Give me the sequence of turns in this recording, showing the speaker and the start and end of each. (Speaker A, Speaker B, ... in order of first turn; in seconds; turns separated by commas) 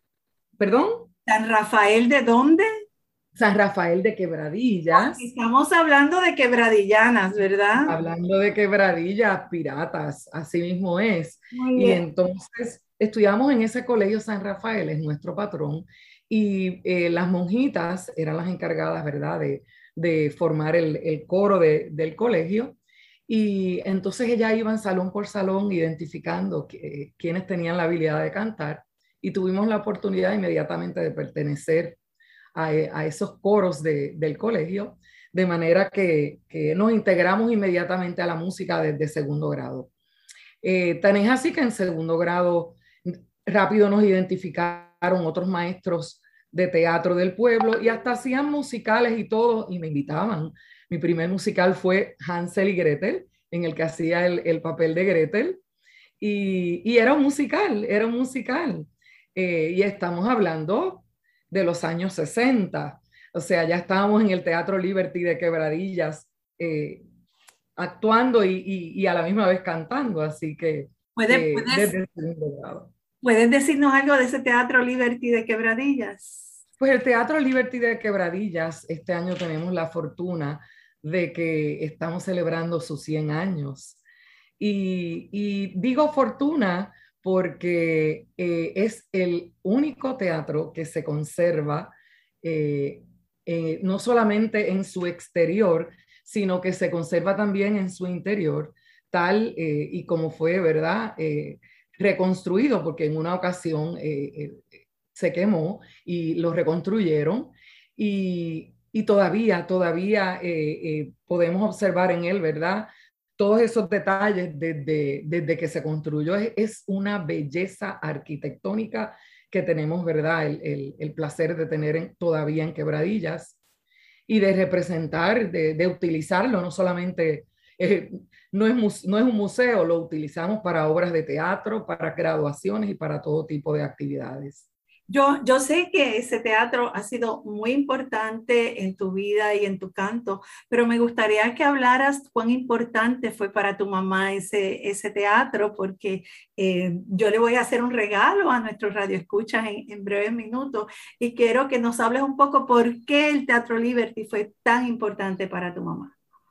Speaker A: 0.6-1.1, Speaker B: 1.3-2.7, Speaker A: 3.4-5.2, Speaker B: 4.9-8.0, Speaker A: 7.8-22.8, Speaker B: 11.5-12.0, Speaker A: 23.3-32.0, Speaker A: 32.5-39.9, Speaker A: 40.6-55.6, Speaker A: 56.2-67.0, Speaker A: 67.8-72.9, Speaker B: 71.2-71.9, Speaker B: 73.2-76.5, Speaker A: 76.8-84.0, Speaker A: 84.6-91.9, Speaker A: 92.4-123.6, Speaker A: 124.3-134.7, Speaker B: 135.1-156.1